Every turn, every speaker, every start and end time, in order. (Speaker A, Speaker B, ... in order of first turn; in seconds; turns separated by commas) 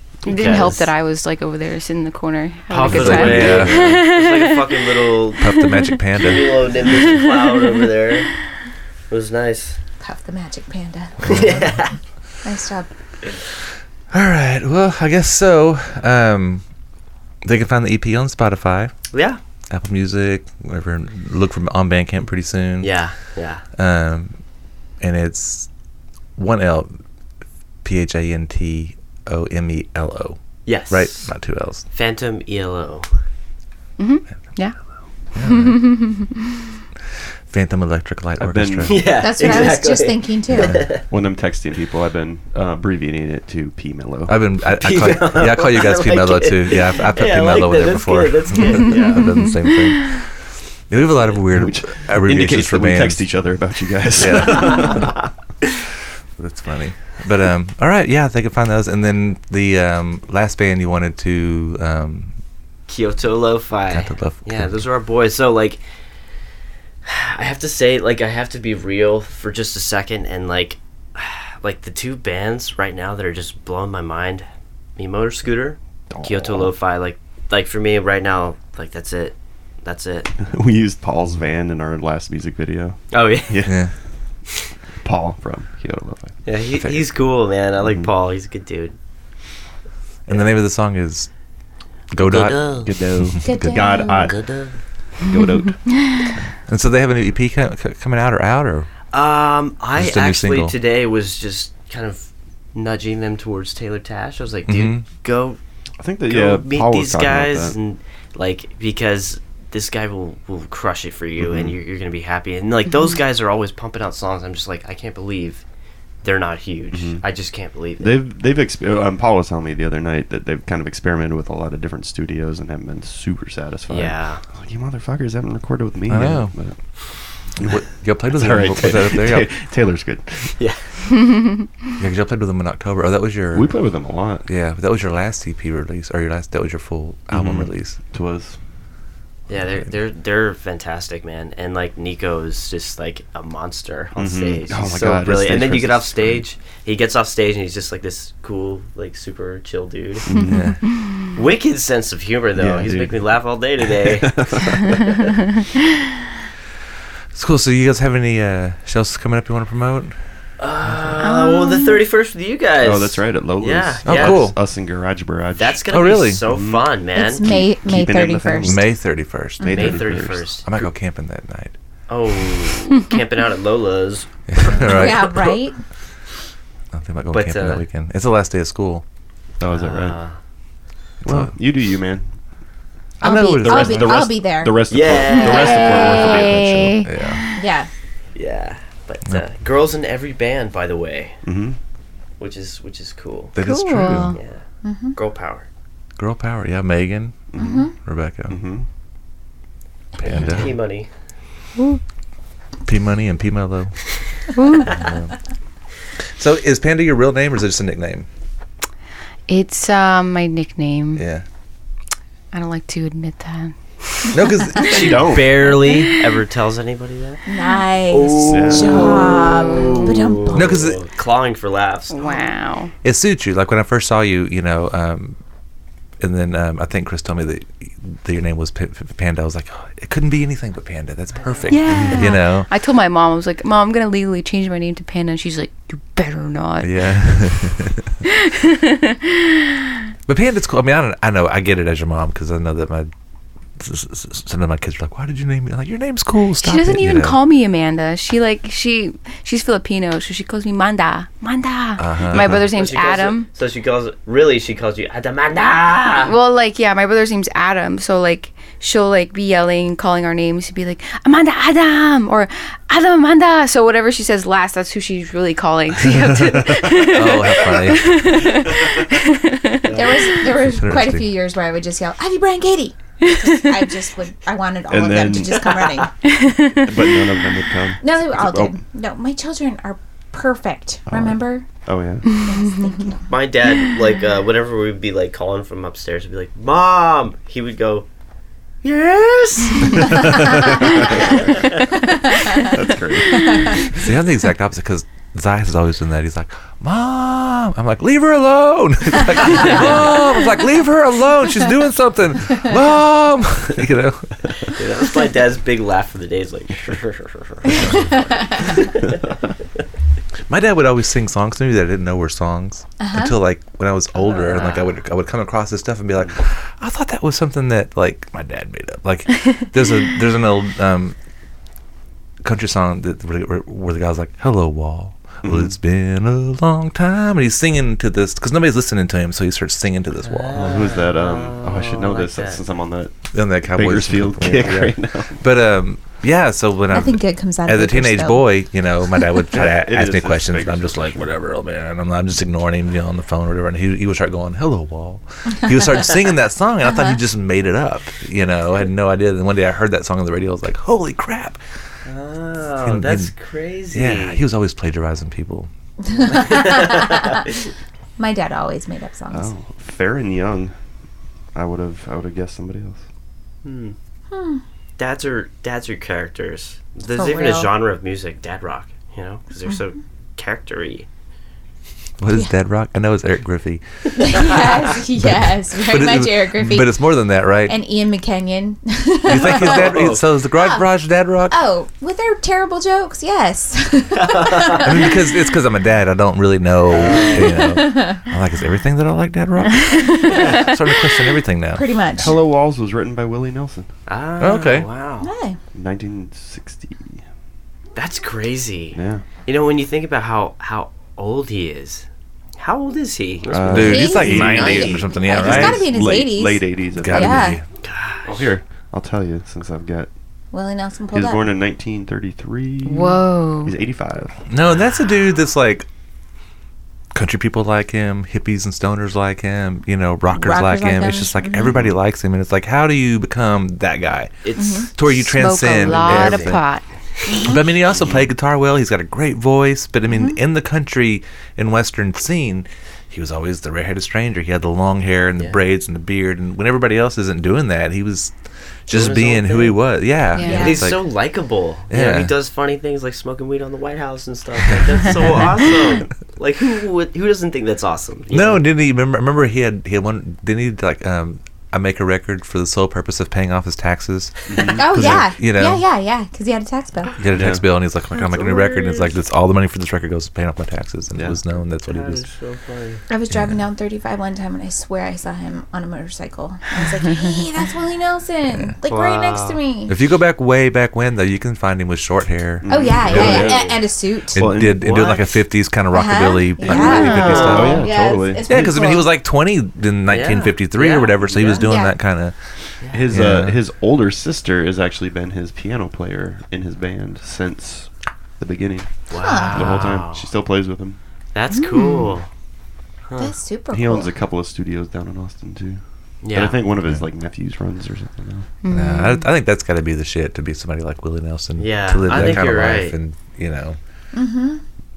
Speaker A: 0.2-0.7, Speaker B: 0.2-0.9, Speaker C: 0.2-4.6, Speaker B: 2.7-8.3, Speaker D: 2.8-3.9, Speaker A: 3.3-3.6, Speaker D: 5.4-6.7, Speaker B: 9.1-9.8, Speaker E: 10.0-11.7, Speaker B: 11.2-11.9, Speaker E: 12.4-12.9, Speaker D: 14.1-16.6, Speaker D: 17.4-18.9, Speaker B: 19.1-19.4, Speaker D: 19.7-22.9, Speaker B: 22.8-23.6, Speaker D: 23.7-24.4, Speaker D: 25.0-25.7, Speaker D: 26.4-26.9, Speaker D: 27.8-31.9, Speaker B: 30.6-31.3, Speaker B: 31.9-33.1, Speaker C: 34.0-34.8, Speaker D: 35.3-36.0, Speaker C: 35.4-36.6, Speaker D: 37.5-39.0, Speaker A: 38.4-39.7, Speaker B: 38.8-41.1, Speaker E: 39.2-40.9, Speaker D: 40.6-40.9, Speaker A: 41.1-44.4, Speaker D: 44.3-50.4, Speaker B: 44.7-49.4, Speaker C: 49.0-50.0, Speaker D: 50.9-53.2, Speaker A: 51.5-55.2, Speaker D: 54.1-55.1, Speaker B: 54.7-55.2, Speaker D: 56.4-62.3, Speaker B: 62.9-65.8, Speaker D: 63.9-64.8, Speaker B: 67.0-80.3, Speaker A: 76.1-76.7, Speaker A: 80.4-83.8, Speaker B: 83.1-83.7, Speaker D: 83.6-83.9, Speaker A: 85.0-86.4, Speaker B: 86.4-88.9, Speaker A: 87.8-88.1, Speaker D: 90.3-91.3, Speaker D: 92.1-94.0, Speaker B: 92.2-92.9, Speaker A: 92.8-94.4, Speaker E: 93.4-94.3, Speaker B: 94.1-94.8, Speaker A: 95.2-95.9, Speaker D: 96.7-98.9, Speaker B: 99.1-105.6, Speaker D: 100.0-100.7, Speaker D: 104.7-105.0, Speaker A: 106.0-107.8, Speaker B: 106.2-115.6, Speaker A: 111.4-111.7, Speaker B: 116.2-118.2, Speaker A: 116.9-117.2, Speaker A: 118.0-126.8, Speaker B: 123.9-124.4, Speaker D: 126.1-126.5, Speaker A: 127.5-130.5, Speaker D: 127.6-129.5, Speaker D: 132.0-133.7, Speaker A: 133.5-134.4, Speaker D: 134.4-138.0, Speaker A: 137.3-138.6, Speaker B: 139.5-150.2, Speaker A: 144.2-146.4, Speaker A: 150.2-150.8, Speaker D: 150.4-150.8, Speaker B: 151.3-154.7, Speaker A: 152.6-153.3, Speaker A: 153.9-155.0, Speaker D: 157.3-160.2, Speaker B: 160.6-164.5, Speaker C: 161.2-162.0, Speaker A: 162.8-165.8, Speaker D: 164.0-164.6, Speaker B: 165.6-167.5, Speaker D: 165.9-166.4, Speaker A: 166.4-166.9, Speaker E: 167.2-168.9, Speaker A: 167.5-168.8, Speaker D: 168.6-170.1, Speaker E: 169.6-170.0, Speaker A: 169.6-170.4, Speaker B: 169.7-170.9, Speaker D: 170.6-171.7, Speaker B: 172.1-175.2, Speaker D: 174.5-175.6, Speaker E: 174.8-175.8, Speaker D: 176.9-179.0, Speaker B: 177.3-177.8, Speaker A: 179.6-180.2, Speaker B: 179.7-180.3, Speaker A: 181.2-182.2, Speaker D: 181.2-181.5, Speaker D: 183.2-184.3, Speaker E: 183.2-184.8, Speaker A: 183.6-187.1, Speaker B: 184.9-186.6, Speaker C: 185.4-187.7, Speaker D: 187.0-187.4, Speaker E: 187.5-187.9, Speaker B: 188.3-191.4, Speaker A: 191.4-191.8, Speaker B: 192.4-193.5, Speaker D: 193.5-194.4, Speaker C: 193.6-194.4, Speaker B: 194.3-194.6, Speaker E: 194.8-195.2, Speaker B: 195.1-195.7, Speaker D: 196.2-198.6, Speaker A: 197.5-197.9, Speaker E: 197.6-197.9, Speaker A: 198.5-198.8, Speaker D: 200.2-200.8, Speaker B: 200.2-201.1, Speaker D: 202.8-204.0, Speaker C: 204.6-205.0, Speaker D: 204.8-205.3, Speaker D: 206.4-208.3, Speaker C: 209.5-211.2, Speaker D: 211.2-211.4, Speaker C: 212.5-214.4, Speaker D: 214.3-215.2, Speaker A: 214.8-215.6, Speaker B: 214.8-217.4, Speaker C: 215.6-216.3, Speaker E: 217.5-220.7, Speaker B: 218.1-222.4, Speaker A: 218.4-219.3, Speaker C: 219.0-220.0, Speaker D: 220.5-221.0, Speaker C: 222.1-222.9, Speaker D: 223.0-225.4, Speaker D: 226.2-232.7, Speaker B: 231.4-232.2, Speaker C: 231.7-237.5, Speaker D: 236.8-238.1, Speaker C: 238.2-239.9, Speaker D: 240.3-243.1, Speaker D: 243.8-247.4, Speaker C: 246.6-253.5, Speaker D: 252.0-252.6, Speaker B: 252.5-256.3, Speaker C: 256.2-270.4, Speaker D: 266.5-268.5, Speaker E: 269.9-276.4, Speaker D: 270.5-271.3, Speaker C: 273.3-273.8, Speaker A: 274.9-275.7, Speaker C: 276.4-276.9, Speaker A: 276.7-278.8, Speaker E: 278.0-281.7, Speaker A: 281.1-282.4, Speaker E: 282.3-283.3, Speaker B: 283.3-288.1, Speaker B: 288.8-291.7, Speaker A: 289.9-291.6, Speaker E: 292.1-292.7, Speaker A: 292.5-293.9, Speaker D: 293.9-304.5, Speaker B: 304.7-309.2, Speaker D: 310.5-321.1, Speaker E: 313.0-313.3, Speaker B: 314.2-314.9, Speaker D: 322.4-330.5, Speaker A: 325.4-325.7, Speaker B: 330.2-332.7, Speaker A: 330.5-333.1, Speaker D: 333.3-351.6, Speaker A: 333.7-335.4, Speaker E: 336.9-338.5, Speaker A: 339.5-341.2, Speaker B: 352.0-354.4, Speaker D: 352.8-353.3, Speaker D: 353.9-355.7, Speaker E: 356.0-357.4, Speaker B: 356.3-357.5, Speaker E: 358.2-359.5, Speaker A: 359.3-360.7, Speaker A: 361.5-363.0, Speaker B: 363.6-363.9, Speaker E: 364.3-364.6, Speaker B: 365.0-371.1, Speaker E: 367.1-367.7, Speaker D: 372.2-373.8, Speaker E: 374.1-377.1, Speaker D: 375.2-377.8, Speaker E: 377.6-379.9, Speaker D: 379.2-381.6, Speaker B: 379.3-380.3, Speaker E: 380.5-380.9, Speaker E: 381.5-385.5, Speaker B: 384.3-384.6, Speaker D: 384.8-391.8, Speaker B: 386.9-387.7, Speaker E: 387.2-388.2, Speaker E: 390.0-390.8, Speaker B: 390.3-390.7, Speaker E: 391.7-392.4, Speaker A: 392.2-393.9, Speaker B: 394.1-395.3, Speaker D: 394.4-394.9, Speaker E: 395.2-395.6, Speaker A: 395.7-397.2, Speaker B: 397.9-402.1, Speaker A: 398.9-399.2, Speaker B: 402.6-405.6, Speaker A: 403.5-407.6, Speaker D: 403.7-405.9, Speaker E: 403.7-407.6, Speaker D: 406.9-407.6, Speaker B: 407.8-408.5, Speaker A: 408.2-410.1, Speaker E: 410.5-411.4, Speaker A: 411.1-414.3, Speaker C: 412.8-413.7, Speaker D: 414.5-415.9, Speaker D: 417.1-426.6, Speaker E: 420.3-421.8, Speaker B: 424.4-424.9, Speaker E: 424.6-424.9, Speaker C: 425.3-426.8, Speaker B: 425.6-426.6, Speaker B: 427.2-428.2, Speaker E: 427.3-427.7, Speaker D: 427.3-438.3, Speaker D: 438.9-441.0, Speaker B: 438.9-439.8, Speaker C: 440.3-440.8, Speaker E: 440.4-440.9, Speaker B: 440.4-448.6, Speaker D: 441.9-442.3, Speaker D: 444.7-445.5, Speaker D: 448.3-455.8, Speaker A: 454.5-455.3, Speaker E: 454.6-457.2, Speaker D: 457.2-462.2, Speaker A: 457.3-457.6, Speaker B: 458.1-459.1, Speaker B: 461.8-463.0, Speaker E: 463.1-470.0, Speaker D: 468.5-468.7, Speaker B: 468.8-469.6, Speaker D: 469.9-473.4, Speaker A: 472.6-473.7, Speaker E: 472.7-474.5, Speaker B: 472.8-473.8, Speaker A: 474.3-475.2, Speaker D: 474.3-477.9, Speaker B: 474.7-475.2, Speaker E: 475.9-479.1, Speaker B: 476.7-477.9, Speaker C: 476.8-477.6, Speaker A: 477.1-478.9, Speaker D: 478.4-482.4, Speaker B: 480.1-481.7, Speaker E: 481.4-481.9, Speaker A: 482.9-491.0, Speaker D: 483.1-483.6, Speaker B: 489.1-490.3, Speaker E: 489.1-489.8, Speaker B: 491.3-492.3, Speaker C: 491.5-492.1, Speaker E: 493.2-494.1, Speaker A: 493.7-495.8, Speaker B: 496.2-496.6, Speaker A: 496.3-498.5, Speaker C: 498.6-499.3, Speaker D: 498.7-503.8, Speaker B: 501.6-502.9, Speaker E: 504.1-504.6